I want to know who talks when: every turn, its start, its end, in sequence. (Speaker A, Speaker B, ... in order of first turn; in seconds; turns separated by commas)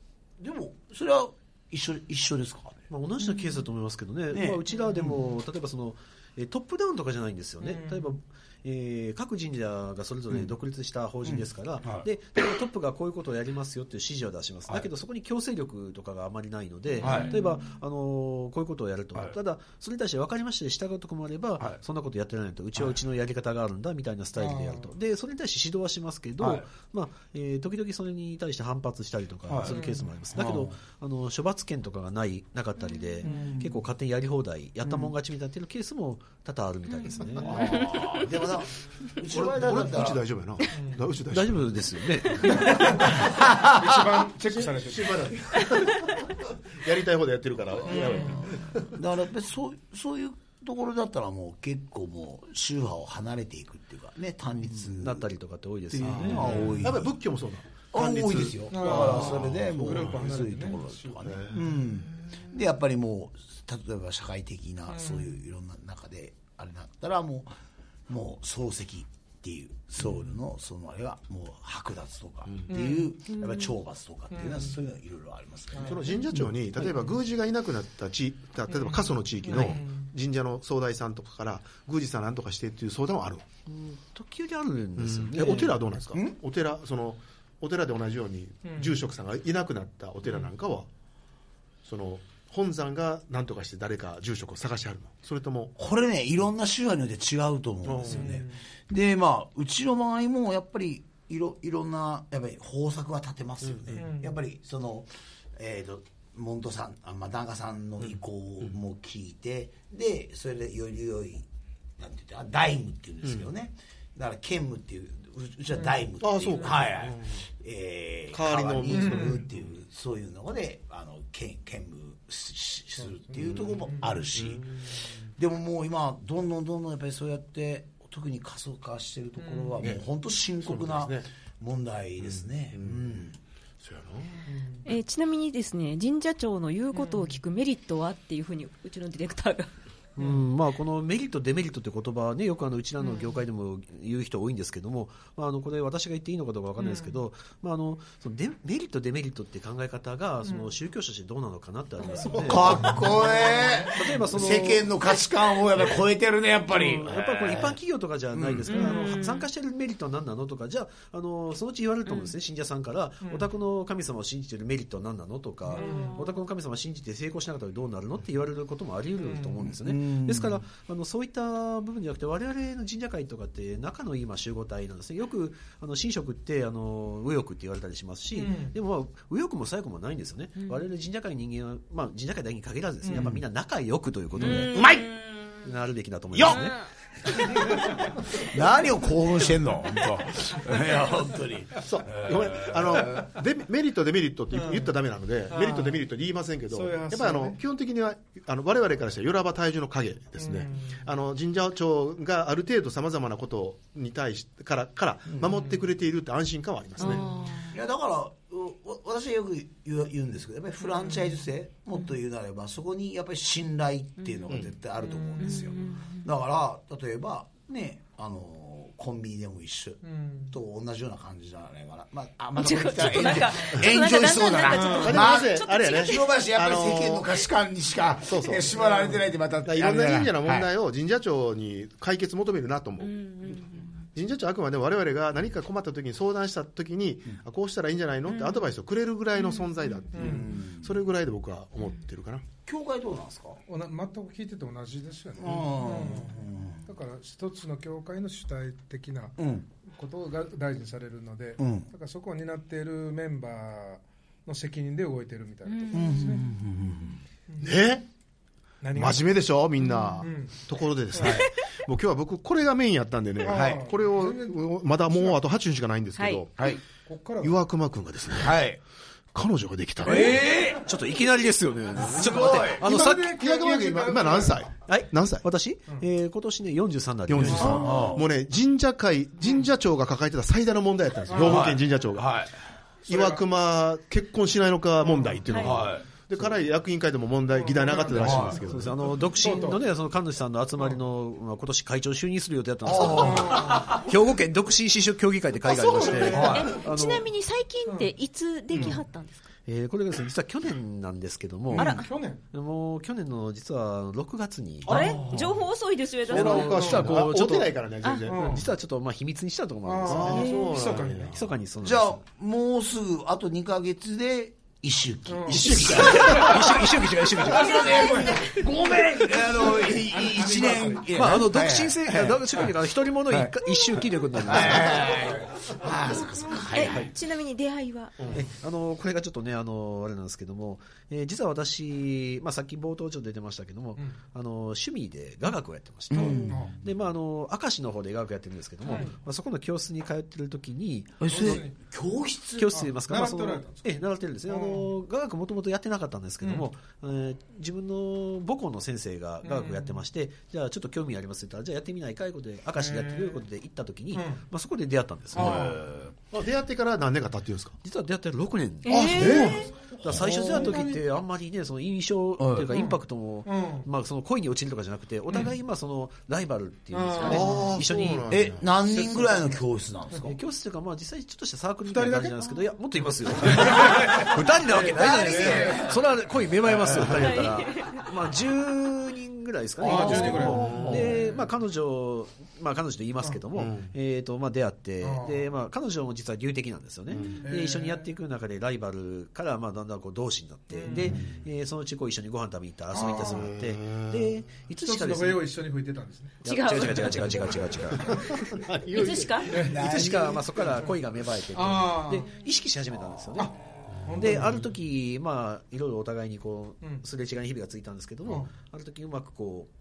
Speaker A: 0.4-2.9, Speaker B: 2.9-37.9, Speaker A: 4.3-5.2, Speaker C: 7.6-8.2, Speaker A: 11.2-12.1, Speaker C: 17.0-17.4, Speaker A: 17.0-17.4, Speaker C: 24.4-24.9, Speaker A: 26.4-26.6, Speaker A: 29.5-29.8, Speaker C: 29.7-30.1, Speaker A: 30.3-30.7, Speaker C: 33.2-33.7, Speaker D: 37.0-38.1, Speaker A: 37.4-40.2, Speaker E: 39.3-41.8, Speaker C: 40.7-41.0, Speaker B: 41.3-43.0, Speaker C: 42.5-45.4, Speaker A: 43.1-44.0, Speaker E: 44.5-49.0, Speaker C: 47.8-48.5, Speaker A: 47.9-55.3, Speaker B: 54.8-56.7, Speaker A: 55.9-57.2, Speaker E: 56.0-60.2, Speaker C: 56.4-56.9, Speaker A: 57.9-67.5, Speaker C: 58.7-61.3, Speaker E: 61.2-62.0, Speaker C: 64.9-65.3, Speaker A: 68.1-76.5, Speaker C: 72.7-73.1, Speaker D: 73.3-73.7, Speaker C: 74.3-74.7, Speaker C: 75.8-76.0, Speaker E: 75.8-83.5, Speaker C: 78.7-80.1, Speaker B: 79.5-79.8, Speaker B: 83.7-85.8, Speaker E: 85.0-90.9, Speaker C: 88.6-89.0, Speaker E: 91.8-95.7, Speaker A: 95.8-111.5, Speaker E: 97.8-98.4, Speaker C: 98.1-98.6, Speaker E: 103.6-104.0, Speaker C: 104.0-104.4, Speaker A: 112.0-133.4, Speaker E: 116.2-117.4, Speaker E: 118.3-119.6, Speaker C: 118.9-119.4, Speaker C: 123.0-124.1, Speaker E: 123.4-123.7, Speaker E: 124.3-125.0, Speaker C: 129.4-129.8, Speaker E: 130.6-131.3, Speaker E: 132.2-133.1, Speaker E: 133.8-134.4, Speaker C: 134.4-134.9, Speaker D: 134.8-139.7, Speaker C: 136.9-137.4, Speaker B: 140.2-154.9, Speaker C: 140.2-140.4, Speaker C: 146.8-147.2, Speaker C: 150.4-150.7, Speaker D: 152.0-152.5, Speaker A: 152.4-157.8, Speaker B: 156.7-184.8, Speaker A: 158.3-158.9, Speaker D: 158.7-159.4, Speaker D: 162.1-162.3, Speaker C: 165.7-166.2, Speaker D: 165.7-166.4, Speaker C: 169.2-169.7, Speaker A: 169.6-170.6, Speaker C: 178.3-178.8, Speaker D: 180.6-180.8, Speaker C: 183.0-183.3, Speaker A: 183.1-183.4, Speaker C: 184.4-184.7, Speaker A: 184.4-185.1, Speaker D: 184.4-185.6, Speaker B: 185.6-186.8, Speaker A: 186.3-186.7, Speaker D: 186.4-187.7, Speaker C: 187.4-188.1, Speaker A: 188.3-193.1, Speaker E: 191.8-207.2, Speaker C: 194.5-194.9, Speaker C: 195.5-196.0, Speaker C: 196.7-197.6, Speaker C: 200.4-201.1, Speaker A: 205.3-205.6, Speaker D: 207.0-207.8, Speaker A: 207.0-230.7, Speaker D: 214.2-214.5, Speaker E: 214.5-214.8, Speaker C: 215.2-215.9, Speaker D: 215.4-216.3, Speaker C: 220.0-220.5, Speaker D: 222.6-226.4, Speaker C: 224.7-225.2, Speaker E: 224.9-227.4, Speaker E: 228.2-228.7, Speaker C: 228.7-229.2, Speaker E: 229.6-242.4, Speaker D: 233.0-234.1, Speaker D: 238.3-238.7, Speaker D: 239.3-239.9, Speaker C: 240.1-240.5, Speaker A: 240.2-241.0, Speaker A: 242.6-243.6, Speaker C: 243.7-256.4, Speaker A: 245.3-246.9, Speaker A: 249.4-249.7, Speaker A: 251.6-251.9, Speaker D: 255.6-256.4, Speaker A: 255.9-257.2, Speaker C: 257.5-257.8, Speaker E: 257.6-258.1, Speaker C: 258.8-259.3, Speaker E: 258.9-266.7, Speaker D: 259.8-260.2, Speaker C: 260.2-260.6, Speaker C: 261.1-261.4, Speaker C: 263.4-265.4, Speaker A: 263.5-263.8, Speaker D: 266.1-266.4, Speaker A: 266.6-266.8, Speaker C: 266.9-267.6, Speaker E: 267.4-268.6, Speaker A: 268.4-268.8, Speaker E: 269.3-270.4, Speaker B: 270.0-273.3, Speaker A: 270.0-270.8, Speaker A: 272.0-272.9, Speaker C: 272.6-274.6, Speaker E: 272.6-275.4, Speaker B: 274.9-277.9, Speaker E: 277.3-282.4, Speaker C: 277.4-278.0, Speaker A: 277.5-278.3, Speaker C: 281.3-281.8, Speaker A: 281.4-282.5, Speaker C: 283.1-283.4, Speaker E: 283.1-288.9, Speaker C: 285.0-285.4, Speaker D: 285.5-285.8, Speaker B: 285.6-286.0, Speaker A: 285.7-286.0, Speaker C: 287.5-289.8, Speaker A: 288.1-288.6, Speaker B: 288.3-297.2, Speaker A: 292.8-293.9, Speaker C: 293.0-294.0, Speaker D: 295.6-299.5, Speaker C: 296.0-296.7, Speaker A: 296.3-296.7, Speaker B: 299.7-305.2, Speaker C: 301.7-302.4, Speaker D: 301.8-302.1, Speaker E: 304.9-305.6, Speaker D: 304.9-307.0, Speaker A: 304.9-305.5, Speaker E: 306.2-308.6, Speaker B: 306.3-310.5, Speaker C: 306.6-307.1, Speaker D: 308.0-308.3, Speaker C: 308.3-308.6, Speaker C: 309.8-311.4, Speaker A: 310.1-310.4, Speaker E: 310.1-311.4, Speaker D: 310.2-310.7, Speaker B: 311.2-312.2, Speaker A: 311.8-322.7, Speaker C: 315.3-315.7, Speaker E: 315.5-316.6, Speaker B: 315.6-318.1, Speaker D: 317.4-318.7, Speaker C: 319.7-321.1, Speaker B: 321.1-325.1, Speaker A: 323.2-323.5, Speaker A: 324.3-327.1, Speaker D: 326.6-328.2, Speaker B: 326.8-327.1, Speaker E: 328.2-328.4, Speaker B: 328.3-341.6, Speaker A: 336.1-336.7, Speaker D: 336.1-336.6, Speaker C: 336.5-336.8, Speaker C: 338.8-339.2, Speaker A: 341.2-342.8, Speaker C: 341.2-341.8, Speaker B: 342.6-356.1, Speaker C: 342.7-343.9, Speaker C: 344.5-344.9, Speaker C: 346.4-346.7, Speaker C: 349.4-350.0, Speaker C: 352.8-353.4, Speaker C: 354.1-354.4, Speaker C: 355.3-355.8, Speaker E: 356.3-357.8, Speaker B: 357.8-369.4, Speaker D: 358.9-359.7, Speaker A: 358.9-360.9, Speaker C: 360.5-360.8, Speaker A: 362.4-362.7, Speaker C: 362.7-363.9, Speaker C: 366.9-367.5, Speaker D: 367.2-367.6, Speaker E: 367.2-368.7, Speaker A: 368.3-370.4, Speaker C: 369.0-369.5, Speaker B: 370.2-395.5, Speaker C: 371.8-372.6, Speaker C: 373.4-375.9, Speaker A: 374.8-376.0, Speaker A: 376.6-377.3, Speaker D: 377.1-378.0, Speaker C: 379.8-381.4, Speaker D: 379.9-380.8, Speaker E: 380.4-381.1, Speaker A: 380.6-381.2, Speaker E: 383.5-383.9, Speaker C: 385.0-385.5, Speaker E: 387.1-387.4, Speaker C: 387.1-388.0, Speaker C: 390.7-391.2, Speaker E: 390.9-391.4, Speaker C: 392.9-393.4, Speaker E: 393.0-394.3, Speaker C: 394.8-396.4, Speaker B: 396.4-398.5, Speaker D: 396.4-398.2, Speaker E: 397.9-399.6, Speaker D: 398.9-399.7, Speaker C: 399.5-399.9, Speaker A: 399.6-400.6, Speaker B: 399.6-403.6, Speaker C: 401.5-402.3, Speaker C: 403.4-404.7, Speaker B: 404.1-409.7, Speaker C: 408.2-408.5